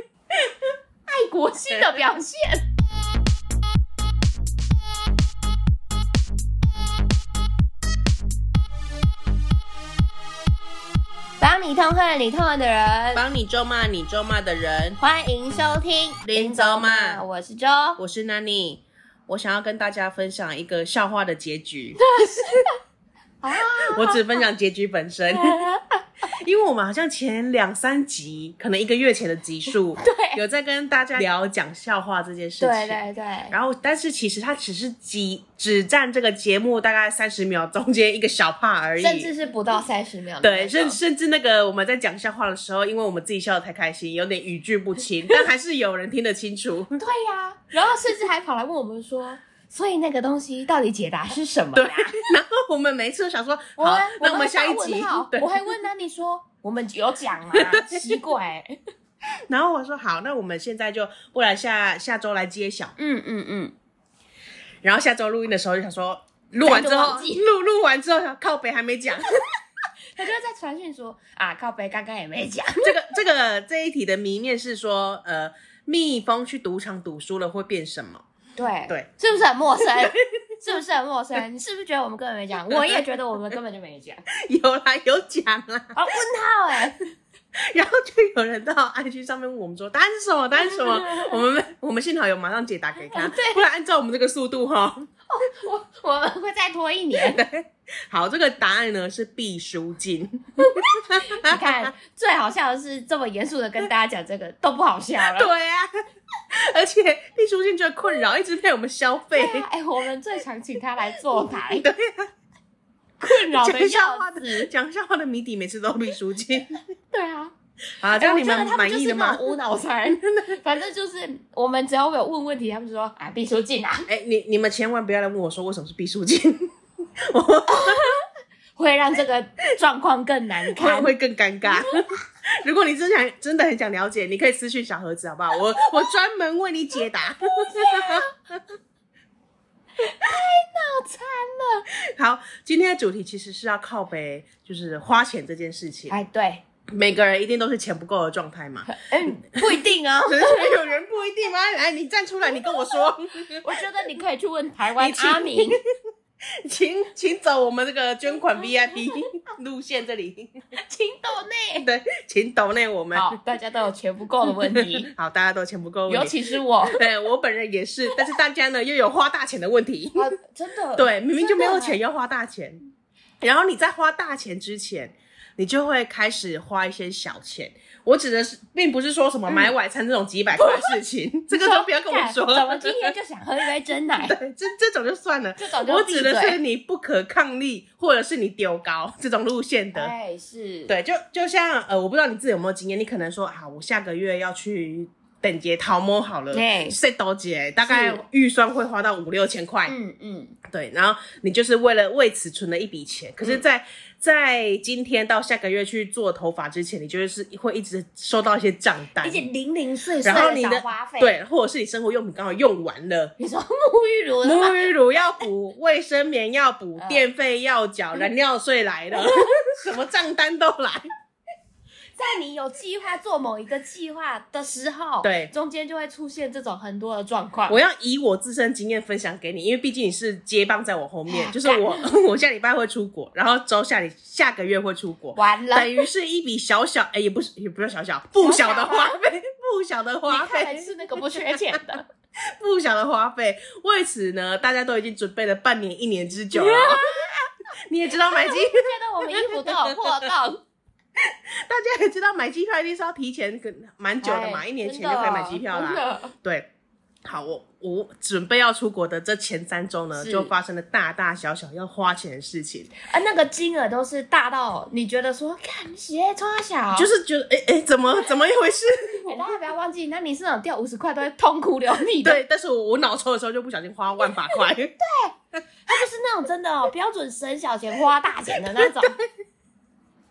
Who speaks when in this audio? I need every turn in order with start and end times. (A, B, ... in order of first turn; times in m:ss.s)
0:01.1-0:02.6 A
0:01.7-0:02.0 B
0:11.4-0:13.2 A
0:13.1-0:15.0 B
0:15.0-0:18.0 A
0:16.3-0:17.2 B
0:18.0-0:22.0 B
0:22.0-0:22.7 A
0:23.4-0:24.2 A
0:23.7-0:25.6 B
0:25.3-0:26.0 A
0:26.4-0:33.0 B
0:30.0-0:30.4 A
0:32.6-0:33.5 A
0:33.5-0:39.3 B
0:39.0-0:41.0 A
0:40.4-0:47.0 B
0:47.0-0:52.2 A
0:51.7-0:55.7 B
0:53.8-0:58.8 A
0:57.5-0:58.2 B
0:59.5-1:02.9 B
1:03.0-1:03.7 A
1:04.8-1:09.4 B
1:06.6-1:07.4 A
1:10.2-1:12.9 A
1:12.8-1:18.2 B
1:18.6-1:24.2 A
1:22.6-1:23.0 B
1:24.3-1:26.0 B
1:25.9-1:27.0 A
1:27.6-1:35.1 B
1:30.6-1:31.4 A
1:33.1-1:33.6 A
1:35.3-1:37.4 A
1:37.2-1:41.9 B
1:40.6-1:45.5 A
1:45.2-1:45.9 B
1:46.5-1:49.6 B
1:49.3-1:51.9 A
1:51.5-1:52.3 B
1:53.2-1:54.7 A
1:53.3-1:56.8 B
1:57.1-1:57.5 A
1:58.0-1:59.4 B
1:58.2-2:04.1 A
2:00.2-2:00.6 B
2:04.1-2:08.1 B
2:07.7-2:08.2 A
2:08.8-2:11.1 A
2:10.7-2:18.6 B
2:11.7-2:12.0 A
2:17.5-2:18.3 A
2:20.0-2:21.9 A
2:21.9-2:26.2 B
2:26.1-2:26.6 A
2:26.9-2:33.8 B
2:28.9-2:30.9 A
2:33.6-2:35.8 A
2:35.0-2:35.8 B
2:36.6-2:40.6 B
2:39.0-2:39.3 A
2:40.7-2:41.9 A
2:41.8-2:43.4 B
2:43.1-2:45.1 A
2:44.4-2:50.2 B
2:46.1-2:47.0 A
2:50.1-2:52.0 A
2:51.0-2:52.8 B
2:53.4-3:03.1 B
3:00.6-3:01.0 A
3:01.5-3:04.4 A
3:04.2-3:10.1 B
3:05.6-3:06.6 A
3:09.9-3:10.9 A
3:10.9-3:19.9 B
3:16.5-3:17.0 A
3:17.8-3:18.2 A
3:19.9-3:20.6 A
3:20.7-3:29.4 B
3:29.2-3:31.4 A
3:30.2-3:33.3 B
3:33.4-3:34.9 A
3:34.4-3:41.0 B
3:37.0-3:37.2 A
3:39.2-3:39.5 A
3:42.2-3:47.8 A
3:45.2-3:45.5 B
3:47.7-4:01.8 B
3:51.3-3:52.0 A
3:55.3-3:56.0 A
3:58.4-3:59.2 A
4:00.3-4:02.0 A
4:02.4-4:07.2 B
4:06.5-4:07.5 A
4:07.9-4:10.3 B
4:08.2-4:10.6 A
4:11.2-4:16.7 B
4:14.2-4:16.3 A
4:17.2-4:22.9 B
4:20.2-4:20.5 A
4:23.0-4:27.1 A
4:27.0-4:29.2 B
4:29.2-4:32.4 A
4:32.2-4:34.9 B
4:35.0-4:35.3 A
4:35.8-4:39.1 A
4:38.6-4:39.3 B